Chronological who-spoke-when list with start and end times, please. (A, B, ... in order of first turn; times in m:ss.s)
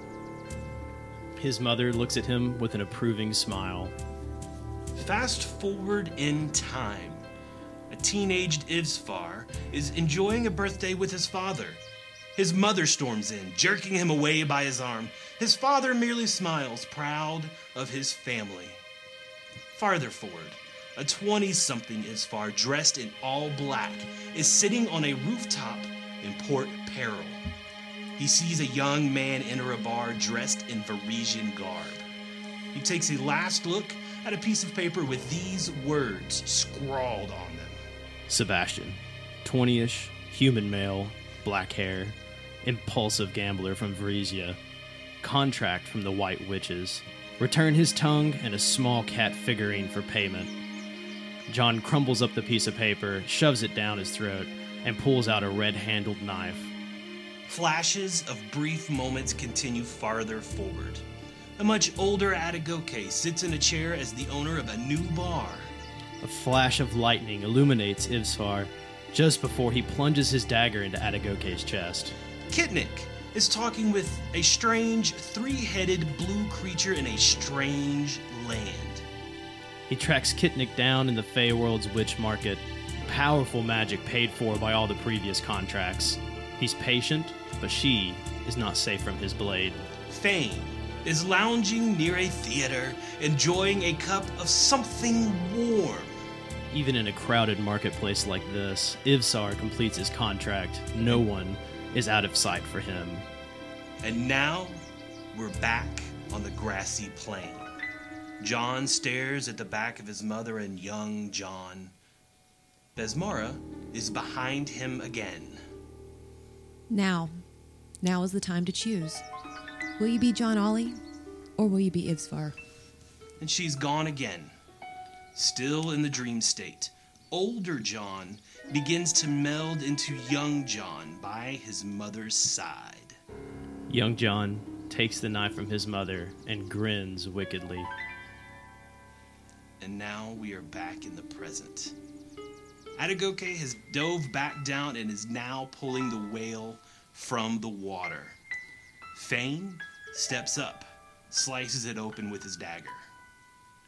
0:01.4-0:03.9 A
0:05.0-0:07.2 B
0:07.9-0:11.8 B
0:12.4-0:18.8 B
0:19.7-0:27.4 B
0:28.2-0:32.0 B
0:32.7-0:37.8 B
0:38.3-0:44.6 A
0:45.2-0:50.5 A
0:51.5-0:56.7 A
0:57.4-1:01.0 B
1:01.6-1:05.7 B
1:06.2-1:12.1 A
1:12.5-1:19.0 B
1:19.9-1:29.9 A
1:30.1-1:36.2 B
1:36.7-1:43.2 A
1:44.0-1:44.8 B
1:45.3-1:47.7 B
1:48.4-1:51.9 B
1:53.0-1:55.6 B
1:56.9-1:57.3 C
1:58.0-1:59.2 C
2:00.0-2:01.0 C
2:01.6-2:02.5 C
2:03.4-2:04.5 B
2:05.3-2:13.2 B
2:13.9-2:17.9 A
2:19.8-2:21.9 B
2:23.0-2:28.4 B
2:29.1-2:33.1 B